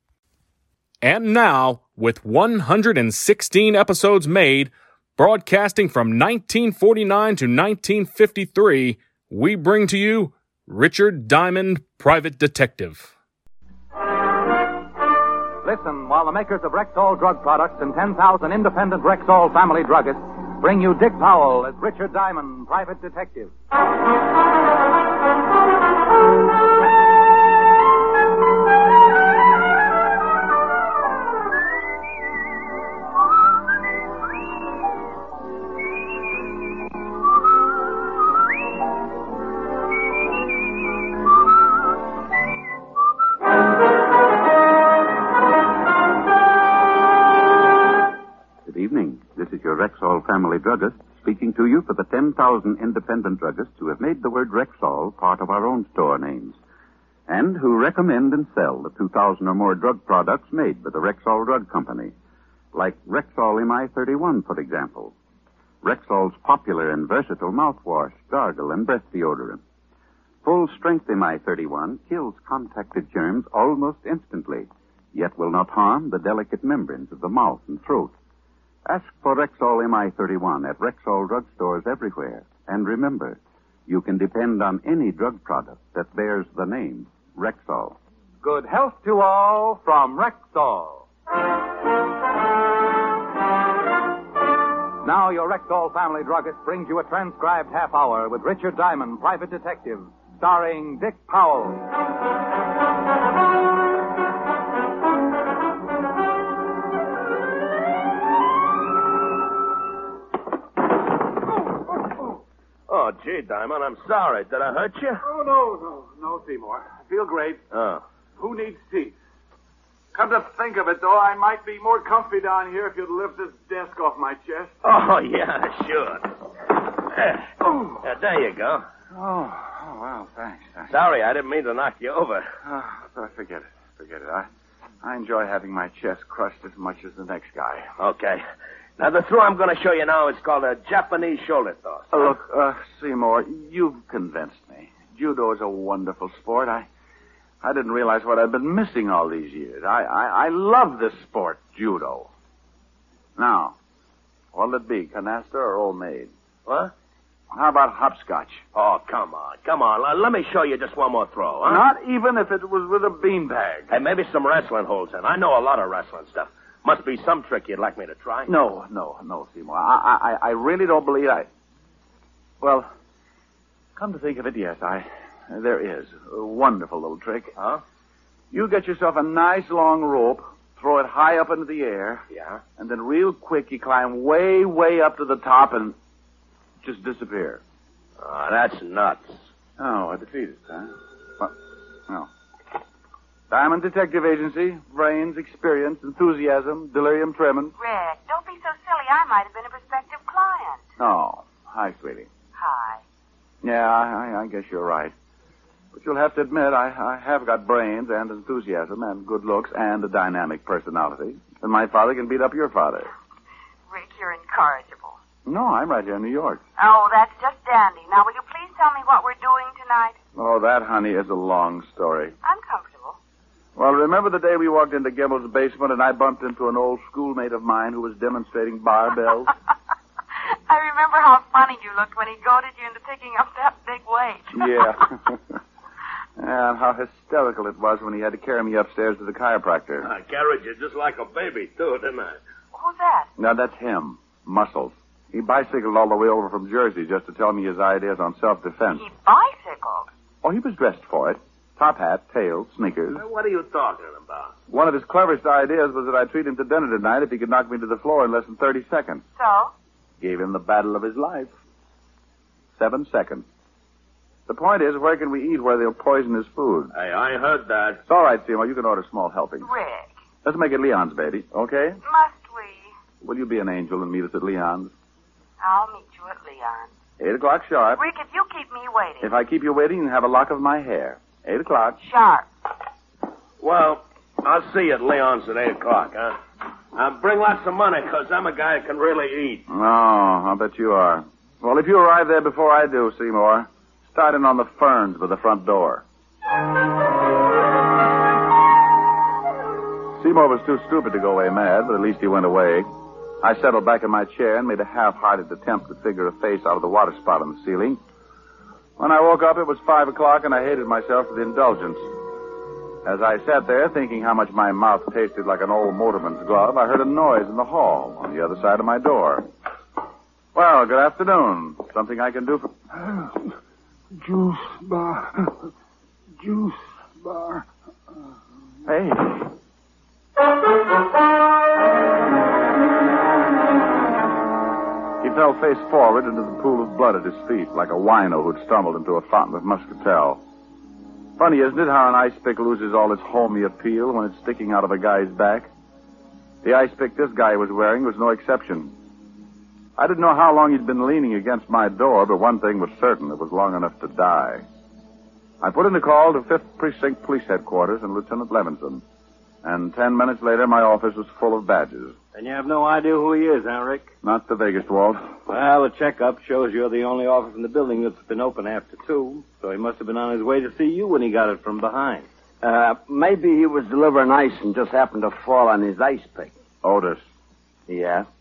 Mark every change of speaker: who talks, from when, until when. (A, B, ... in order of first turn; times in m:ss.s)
0:01.0-0:13.1 A
0:15.6-0:23.5 B
0:48.6-0:56.6 C
0:57.3-1:02.1 C
1:02.7-1:05.1 C
1:05.8-1:09.6 C
1:10.4-1:18.1 C
1:18.8-1:28.0 C
1:28.4-1:31.0 B
1:35.0-1:41.8 B
1:52.9-1:55.2 D
1:55.2-1:57.6 E
1:57.7-1:58.0 D
1:58.4-1:59.1 E
2:00.1-2:04.8 E
2:04.8-2:06.3 D
2:07.1-2:08.8 D
2:09.1-2:10.9 E
2:10.9-2:12.4 D
2:12.6-2:14.5 E
2:15.0-2:17.9 E
2:18.0-2:18.4 D
2:19.0-2:22.2 D
2:22.1-2:26.9 E
2:27.6-2:32.3 E
2:33.4-2:33.7 E
2:34.5-2:36.3 E
2:36.6-2:36.9 D
2:37.5-2:38.6 E
2:38.7-2:41.8 D
2:41.6-2:44.0 E
2:43.9-2:48.5 D
2:48.5-2:51.5 E
2:52.6-2:52.9 E
2:54.0-2:57.5 E
2:57.6-2:57.8 D
2:58.5-3:02.2 E
3:02.3-3:02.6 D
3:02.8-3:06.0 E
3:06.8-3:07.6 E
3:08.2-3:09.4 D
3:09.8-3:11.5 E
3:13.5-3:17.7 E
3:17.8-3:20.8 F
3:21.0-3:22.3 E
3:22.6-3:23.0 F
3:23.6-3:25.1 E
3:25.9-3:33.1 E
3:33.9-3:35.2 F
3:35.4-3:36.6 E
3:36.8-3:40.2 F
3:40.4-3:42.3 E
3:42.4-3:43.2 F
3:43.8-3:49.5 E
3:50.7-3:54.7 F
3:54.5-3:55.4 E
3:56.4-4:00.1 E
4:00.0-4:02.4 D
4:02.7-4:03.3 F
4:03.4-4:09.0 E
4:09.0-4:10.1 F
4:10.4-4:13.2 E
4:13.1-4:14.5 D
4:14.7-4:19.2 E
4:19.4-4:19.7 F
4:20.2-4:21.5 E
4:22.7-4:23.4 E
4:24.5-4:26.9 E
4:26.9-4:28.0 D
4:28.0-4:29.7 E
4:29.6-4:30.1 F
4:30.4-4:32.0 E
4:32.0-4:32.9 F
4:33.2-4:34.9 E
4:35.6-4:36.9 F
4:37.2-4:38.0 E
4:38.0-4:39.3 F
4:39.2-4:42.0 E
4:42.0-4:42.4 F
4:43.6-4:46.4 D
4:46.9-4:49.6 D
4:49.7-4:56.0 E
5:00.2-5:02.9 E
5:03.4-5:08.0 E
5:09.0-5:12.0 E
5:13.0-5:19.4 E
5:20.5-5:22.7 E
5:23.0-5:23.3 G
5:24.2-5:25.5 G
5:26.4-5:27.6 G
5:28.8-5:29.4 E
5:35.2-5:40.4 E
5:41.4-5:45.7 E
5:46.6-5:48.9 E
5:50.0-5:54.6 E
5:55.6-5:59.0 E
5:59.6-6:02.1 E
6:02.3-6:04.1 H
6:04.2-6:05.2 E
6:05.5-6:12.3 H
6:12.6-6:16.5 I
6:16.8-6:17.2 E
6:17.9-6:18.3 I